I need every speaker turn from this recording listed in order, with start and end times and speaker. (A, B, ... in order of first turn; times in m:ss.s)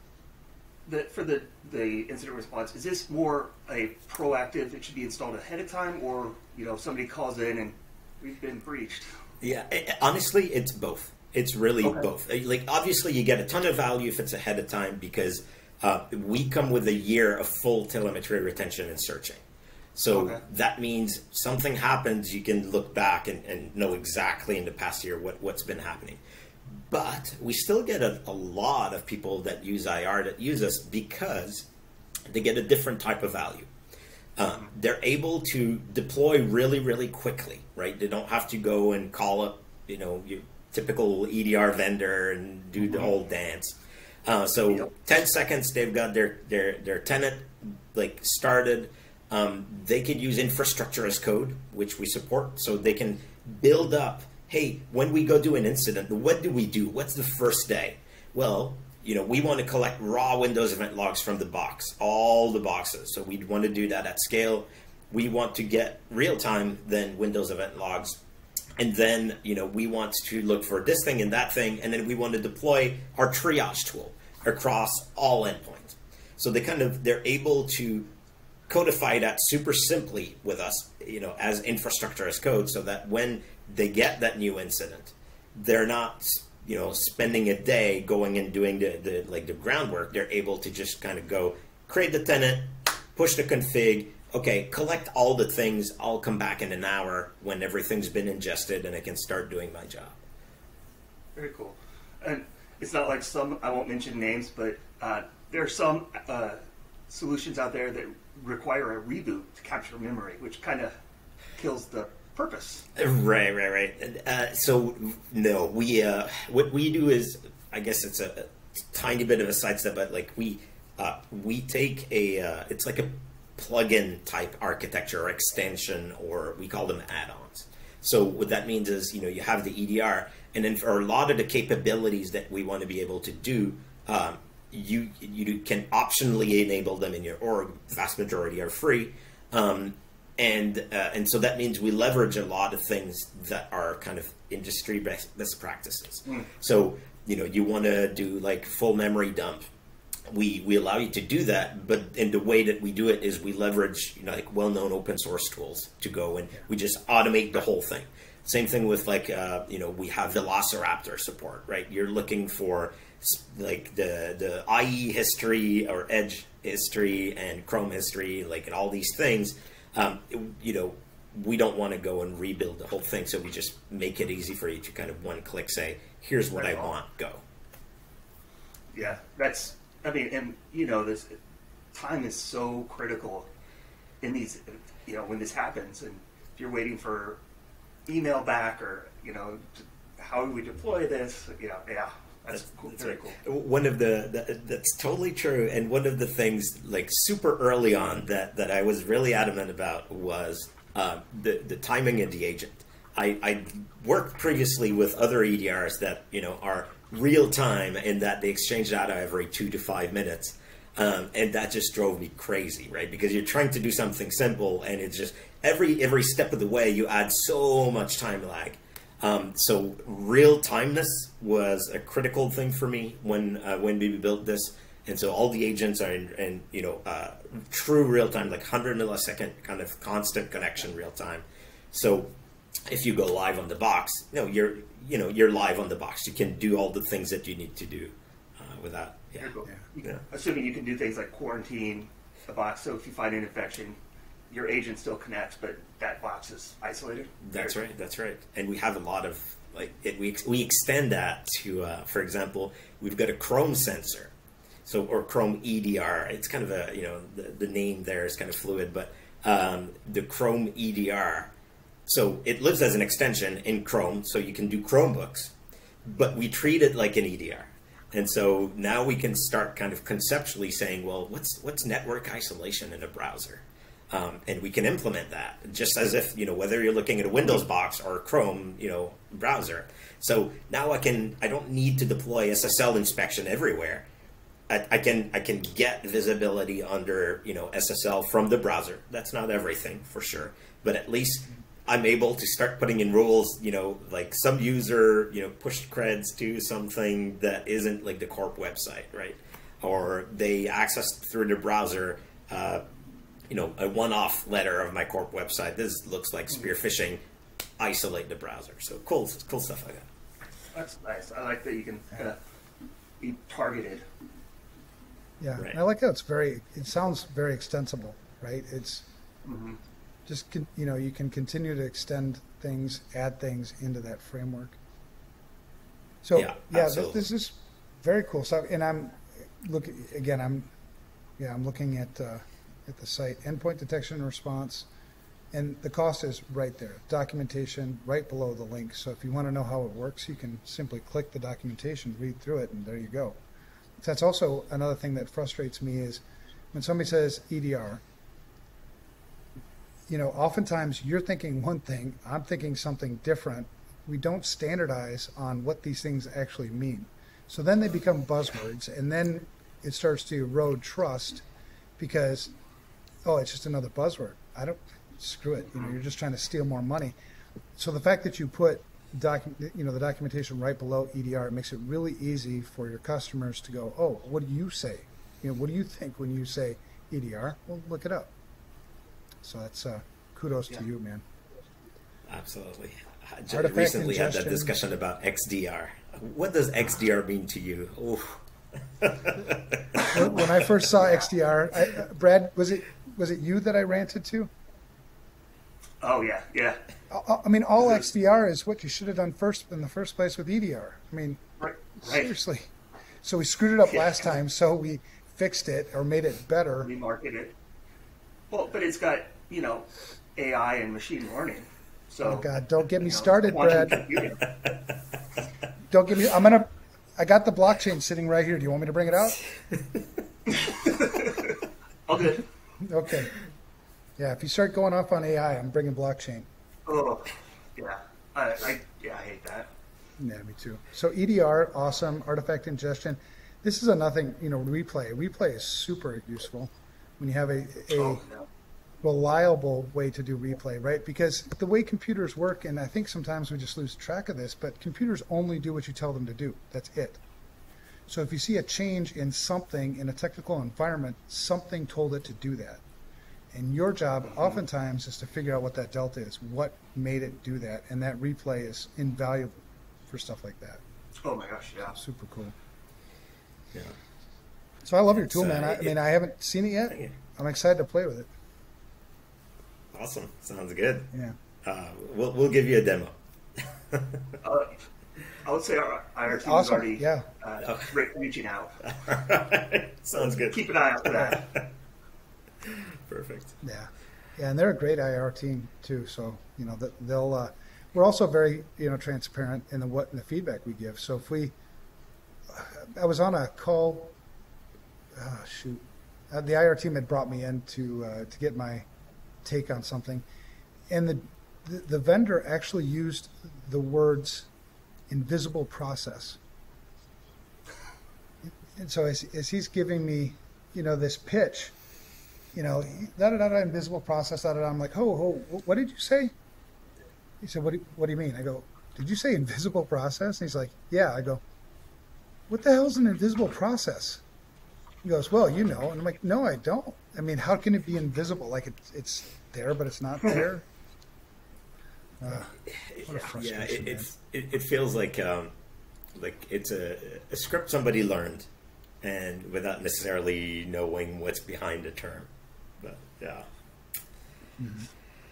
0:00.9-0:09.2 A
0:09.4-0:19.4 B
0:20.0-0:26.2 B
0:20.1-0:20.4 A
0:26.7-0:31.7 B
0:32.3-0:33.7 B
0:34.4-1:08.2 B
1:08.8-1:18.1 B
1:18.7-1:40.2 B
1:41.4-1:50.9 A
1:51.6-1:52.9 A
1:53.0-2:29.7 B
2:30.3-2:57.4 B
2:56.6-2:56.9 A
2:58.9-3:01.4 A
3:01.9-3:03.5 A
3:04.2-3:07.4 A
3:08.1-3:13.4 A
3:12.5-3:52.4 B
3:52.9-4:00.2 B
3:59.4-4:04.0 A
4:04.5-4:07.9 A
4:07.4-4:14.3 B
4:14.8-4:21.5 B
4:22.1-4:44.1 B
4:44.7-5:02.8 B
5:03.5-5:07.2 B
5:07.8-5:10.1 B
5:10.7-5:12.4 A
5:13.2-5:14.0 A
5:15.4-5:19.1 C
5:19.4-5:19.8 A
5:20.3-5:24.8 C
5:26.2-5:30.7 C
5:26.4-5:27.3 B
5:31.4-5:34.9 C
5:35.5-5:43.4 C
5:44.0-5:46.2 C
5:46.7-5:48.0 C
5:50.1-6:01.4 C
6:02.0-6:02.5 C
6:03.2-6:07.1 C
6:07.8-6:18.3 C
6:19.4-6:21.2 C
6:22.3-6:28.4 B
6:23.5-6:24.7 C
6:29.0-6:30.3 B
6:30.1-6:34.5 C
6:36.0-6:36.8 A
6:37.1-6:41.4 C
6:41.6-6:42.3 A
6:42.0-6:42.7 C
6:43.2-6:46.9 C
6:46.8-6:47.5 A
6:48.5-6:54.5 A
6:52.2-6:54.0 C
6:55.9-6:59.4 C
6:59.7-7:00.0 B
7:00.5-7:02.4 A
7:02.8-7:03.4 C
7:04.2-7:06.5 C
7:06.9-7:09.7 A
7:10.2-7:18.2 C
7:17.9-7:18.5 A
7:19.0-7:27.2 C
7:28.1-7:32.8 C
7:33.5-7:40.8 C
7:34.3-7:34.6 A
7:41.2-7:42.0 A
7:41.9-7:42.6 C
7:44.8-7:48.3 C
7:45.1-7:46.0 B
7:49.9-7:51.1 B
7:51.6-7:53.2 B
7:53.9-7:54.4 B
7:54.4-7:54.8 A
7:55.4-7:58.9 A
7:56.3-7:57.3 C
7:57.6-7:57.9 B
7:58.9-8:01.7 B
8:00.2-8:01.5 A
8:02.6-8:03.6 B
8:03.6-8:11.5 C
8:12.5-8:14.1 C
8:15.1-8:18.9 C
8:19.4-8:20.2 C
8:20.9-8:24.5 C
8:25.1-8:26.4 C
8:28.7-8:31.7 C
8:32.5-8:36.3 C
8:37.4-8:41.4 C
8:42.5-8:44.2 C
8:45.0-8:50.6 C
8:52.2-8:52.5 C
8:52.3-8:55.5 B
8:53.0-8:54.1 C
8:56.1-8:58.5 B
8:59.0-9:02.3 B
9:02.8-9:03.5 B
9:04.6-9:04.9 C